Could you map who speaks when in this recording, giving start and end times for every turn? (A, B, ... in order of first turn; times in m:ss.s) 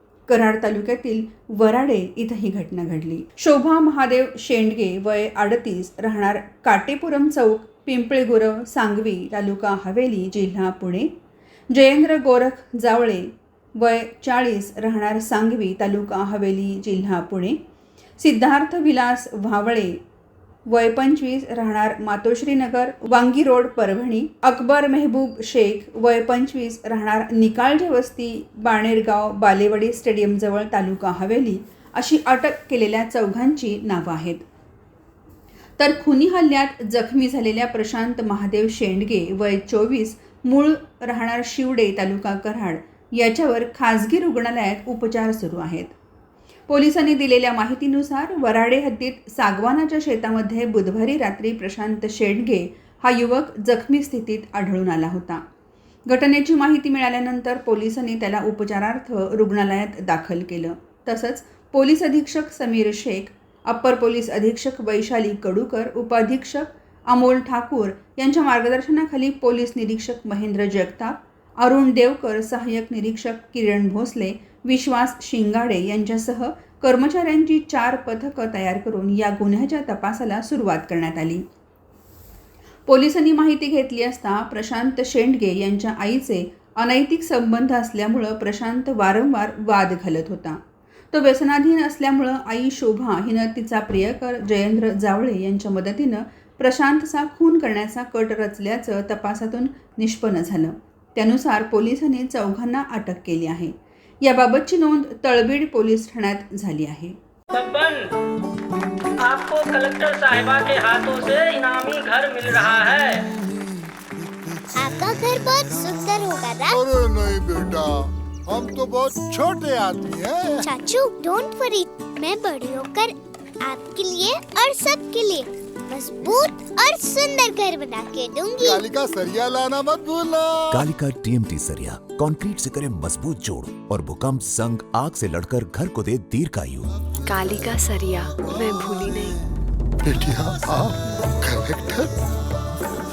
0:00.3-0:11.1 A
0:11.7-0:17.6 A
0:18.2-0:20.0 A
0:20.7-0:34.4 A
0:35.8-0:45.9 A
0:46.7-0:55.4 A
0:56.1-1:21.4 A
1:22.9-1:30.6 A
1:31.1-1:47.1 A
1:47.5-1:48.1 B
1:49.2-1:53.2 B
1:54.8-1:56.8 C
1:56.6-2:00.7 D
2:00.6-2:08.8 C
2:08.6-2:10.8 D
2:10.7-2:16.9 E
2:17.2-2:19.4 F
2:20.0-2:22.1 D